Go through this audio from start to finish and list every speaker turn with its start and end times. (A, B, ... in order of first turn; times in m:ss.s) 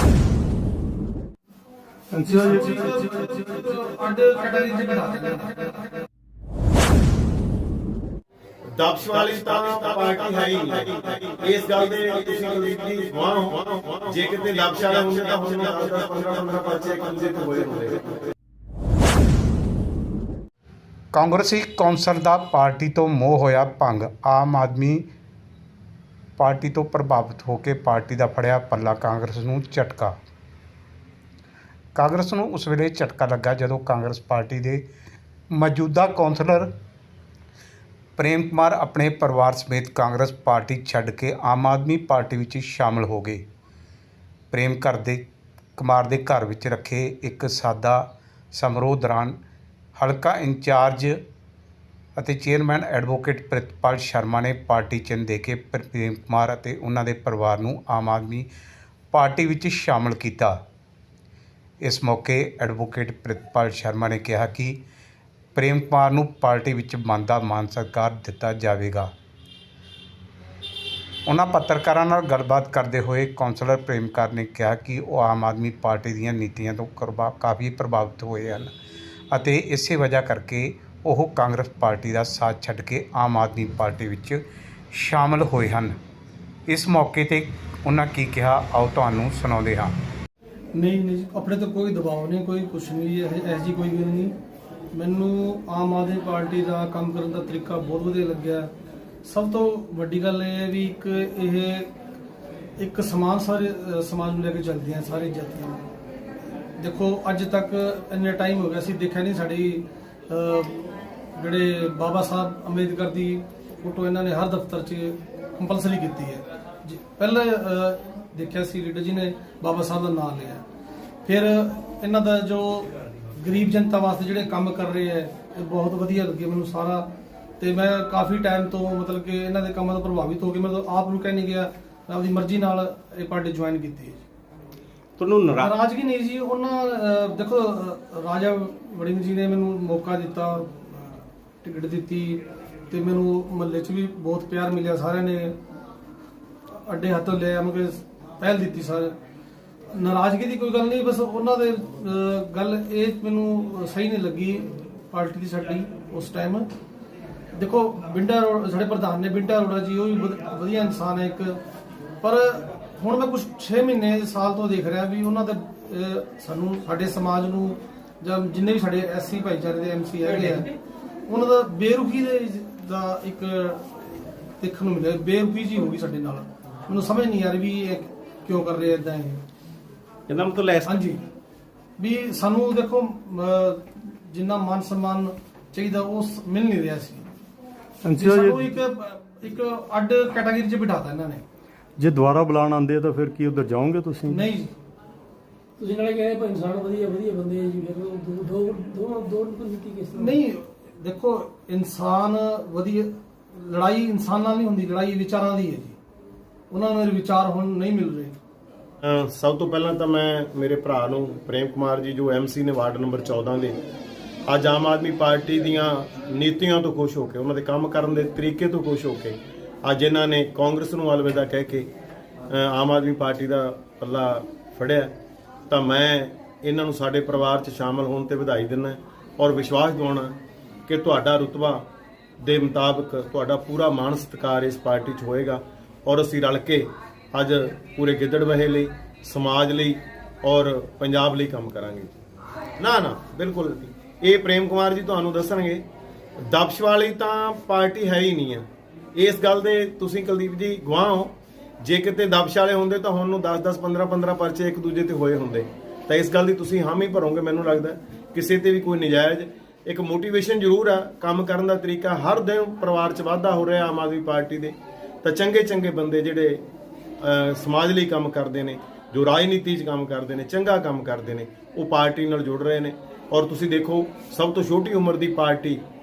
0:02.1-0:02.6 A
0:02.2-0:05.7 B
0:08.8-0:18.2 C
0:21.1-0:25.0 D
0:26.4-0:30.1 D
0:32.0-0:34.8 D
0:35.5-0:36.7 D
0:38.2-0:43.4 D
0:44.5-0:45.2 D
0:45.8-0:49.4 D
0:50.0-0:51.2 D
0:52.2-0:58.5 D
0:59.1-1:00.6 D
1:01.8-1:04.8 D
1:05.5-1:09.1 D
1:11.3-1:18.7 D
1:19.3-1:24.4 D
1:24.9-1:25.9 D
1:26.7-1:29.9 D
1:30.7-1:34.3 B
1:34.9-1:38.7 B
1:39.2-1:41.9 B
1:42.8-1:45.8 B
1:46.8-2:00.6 B
2:01.2-2:07.1 B
2:07.6-2:14.2 B
2:15.2-2:15.6 C
2:15.5-2:25.6 B
2:26.7-2:29.1 B
2:29.9-2:36.7 B
2:37.5-2:41.6 B
2:42.2-2:50.7 B
2:51.3-2:54.0 B
2:54.6-2:59.4 B
3:00.3-3:00.8 C
3:00.8-3:01.2 B
3:02.0-3:07.3 B
3:08.0-3:08.6 A
3:08.1-3:11.4 B
3:12.0-3:14.4 A
3:14.3-3:14.7 B
3:15.8-3:20.3 E
3:20.1-3:26.0 B
3:26.7-3:28.4 B
3:29.0-3:33.8 C
3:34.5-3:41.9 C
3:42.5-3:45.1 C
3:45.7-3:50.4 C
3:50.9-3:51.9 C
3:52.4-4:02.1 C
4:02.8-4:05.8 C
4:06.4-4:26.6 C
4:27.2-4:35.8 C